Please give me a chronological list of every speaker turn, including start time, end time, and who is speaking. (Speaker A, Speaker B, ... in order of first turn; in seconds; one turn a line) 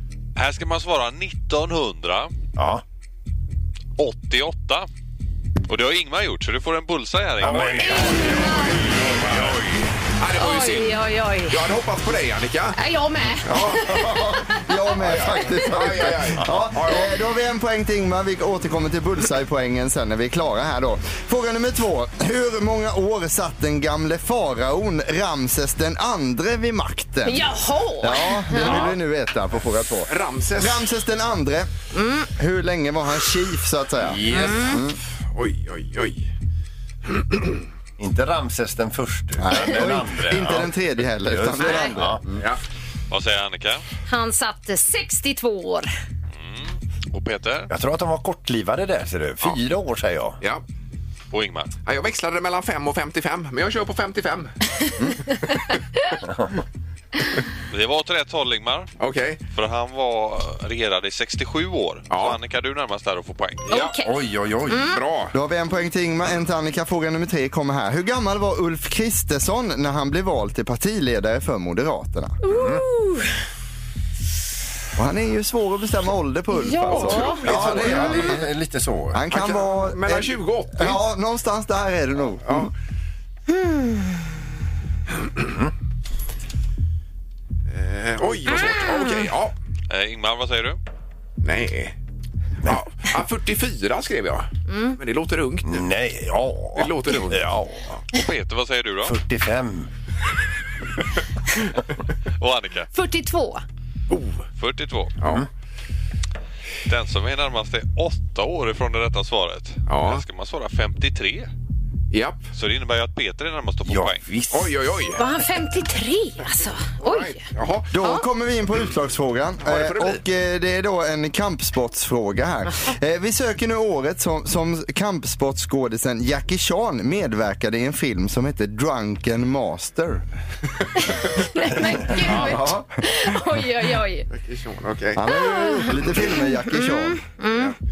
Speaker A: 0.4-2.3
Speaker B: 2.6-2.8
Speaker A: 4.0-4.9
Speaker A: 5.7-8.0
Speaker B: 7.4-9.6
Speaker C: 7.8-8.8
Speaker D: 10.2-12.8
Speaker C: 10.4-11.6
Speaker C: 12.8-14.7
Speaker D: 13.5-14.0
Speaker E: 13.9-27.5
Speaker D: 15.0-17.1
Speaker C: 27.2-28.9
Speaker E: 28.0-31.7
Speaker D: 28.6-28.9
Speaker D: 30.1-30.9
Speaker C: 31.9-32.3
Speaker E: 32.3-35.0
Speaker B: 34.0-34.8
Speaker C: 34.3-34.8
Speaker D: 35.4-36.3
Speaker D: 37.1-37.6
Speaker B: 38.0-40.7
Speaker E: 39.4-42.4
Speaker B: 41.2-42.2
Speaker C: 41.6-41.9
Speaker A: 43.1-43.8
Speaker C: 44.1-45.9
Speaker A: 46.4-47.7
Speaker B: 47.7-50.4
Speaker A: 51.3-51.7
Speaker D: 51.9-54.5
Speaker A: 57.7-58.9
Speaker D: 59.0-59.4
Speaker A: 59.5-63.7
Speaker D: 62.1-62.4
Speaker C: 63.7-64.1
Speaker B: 64.0-64.9
Speaker C: 64.7-65.0
Speaker D: 64.9-65.3
Speaker E: 65.3-72.4
Speaker C: 72.4-73.3
Speaker B: 72.5-72.8
Speaker E: 75.0-78.5
Speaker C: 76.5-78.1
Speaker D: 76.9-78.2
Speaker B: 77.0-79.2
Speaker E: 79.1-82.7
Speaker D: 79.3-81.0
Speaker C: 83.6-84.0
Speaker B: 85.5-85.7
Speaker D: 87.7-89.5
Speaker C: 88.5-89.3
Speaker A: 89.9-90.8
Speaker D: 91.4-92.0
Speaker D: 92.6-95.9
Speaker C: 94.7-95.0
Speaker B: 95.7-97.8
Speaker D: 96.8-97.6
Speaker A: 98.1-99.2
Speaker B: 99.0-99.9
Speaker A: 102.4-102.9
Speaker C: 102.9-103.6
Speaker D: 104.1-104.4
Speaker A: 104.6-105.2
Speaker A: 106.9-111.5
Speaker D: 109.9-110.2
Speaker D: 112.1-112.5
Speaker A: 112.5-114.2
Speaker B: 113.9-114.7
Speaker D: 114.5-115.2
Speaker C: 115.2-117.4
Speaker D: 117.0-117.9
Speaker E: 117.9-130.2
Speaker D: 119.6-120.2
Speaker C: 131.0-134.3
Speaker E: 131.7-133.0
Speaker D: 134.3-135.2
Speaker E: 135.2-137.2
Speaker C: 135.3-137.7